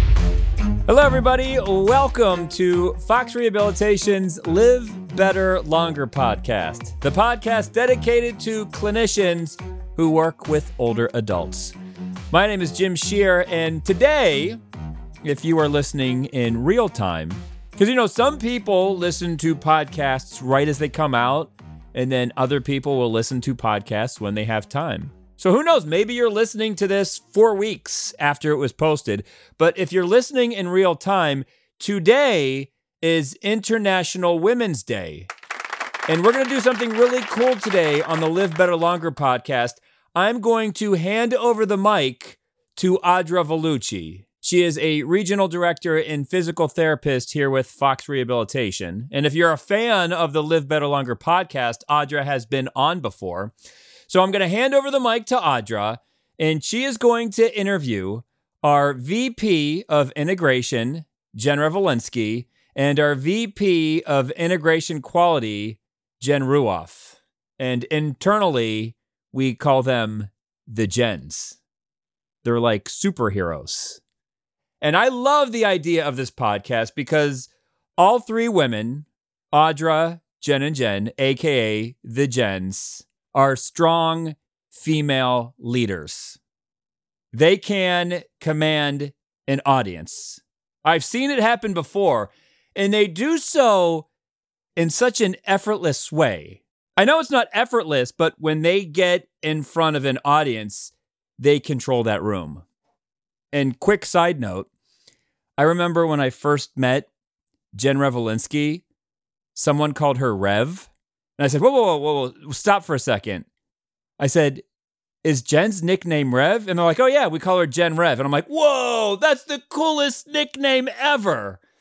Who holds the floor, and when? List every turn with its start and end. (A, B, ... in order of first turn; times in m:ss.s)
0:00.9-0:11.7 A
0:12.3-0:14.6 A
0:15.2-0:35.3 A
0:36.1-0:53.5 A
0:54.1-1:11.6 A
1:12.4-1:14.0 A
1:14.8-1:26.4 A
1:27.3-1:34.1 A
1:34.8-1:42.6 A
1:43.5-1:44.7 A
1:45.6-1:47.1 A
1:47.7-1:48.8 A
1:49.5-1:53.4 A
1:54.2-1:54.6 A
1:55.2-2:01.6 A